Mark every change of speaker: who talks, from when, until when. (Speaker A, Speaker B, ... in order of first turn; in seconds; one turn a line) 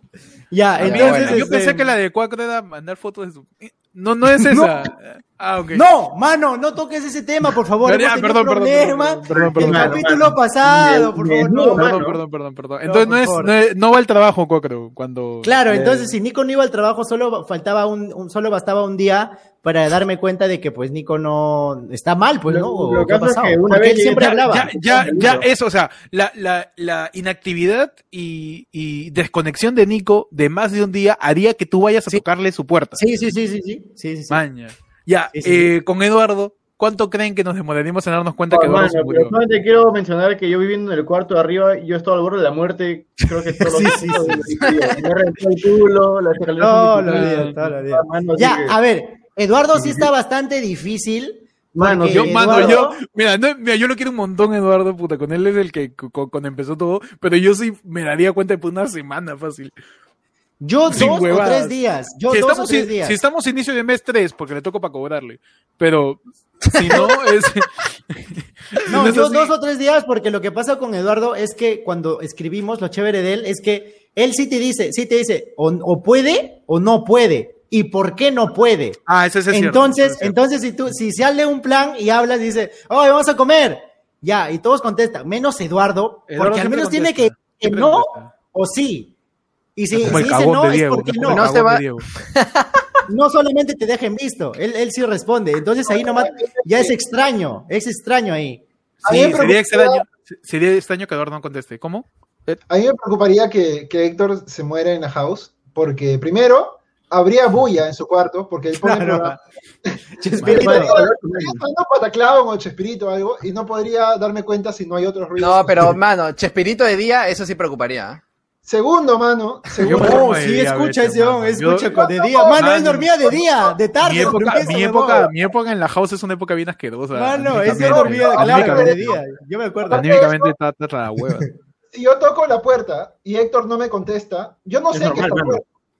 Speaker A: 0.5-1.9
Speaker B: 0.8-1.5
Speaker C: 0.8-5.8
Speaker A: 4.3-4.9
Speaker A: 5.7-11.9
Speaker C: 7.8-10.1
Speaker D: 9.3-12.2
Speaker C: 11.8-16.1
Speaker A: 12.8-13.5
Speaker A: 15.4-24.8
Speaker D: 22.5-25.4
Speaker C: 24.4-33.0
Speaker A: 33.0-34.4
Speaker C: 34.3-39.4
Speaker A: 35.3-35.7
Speaker D: 38.5-48.8
Speaker A: 43.6-44.5
Speaker B: 44.6-44.9
Speaker A: 46.6-53.0
Speaker C: 47.1-47.7
Speaker D: 49.8-50.1
Speaker D: 51.7-52.9
Speaker C: 52.1-59.7
Speaker A: 60.6-63.2
Speaker C: 60.9-61.7
Speaker C: 62.3-69.5
Speaker B: 66.7-67.2
Speaker A: 68.9-89.1
Speaker C: 79.1-80.3
Speaker C: 86.3-88.3
Speaker A: 89.8-91.5
Speaker C: 89.9-92.1
Speaker B: 91.2-92.8
Speaker A: 93.1-98.6
Speaker E: 95.9-96.9
Speaker C: 99.0-102.6
Speaker E: 99.0-100.0
Speaker E: 102.7-109.4
Speaker A: 108.8-109.4
Speaker A: 110.2-111.0
Speaker E: 110.4-116.0
Speaker D: 110.4-111.6
Speaker B: 115.4-118.2
Speaker E: 118.6-120.3
Speaker A: 119.8-125.3
Speaker C: 119.8-122.0
Speaker E: 121.9-122.6
Speaker C: 122.5-123.3
Speaker E: 123.2-123.7
Speaker C: 124.0-129.2
Speaker A: 127.1-130.3
Speaker E: 127.6-129.2
Speaker E: 129.9-130.5
Speaker C: 129.9-131.5
Speaker E: 131.9-135.6
Speaker D: 134.9-135.6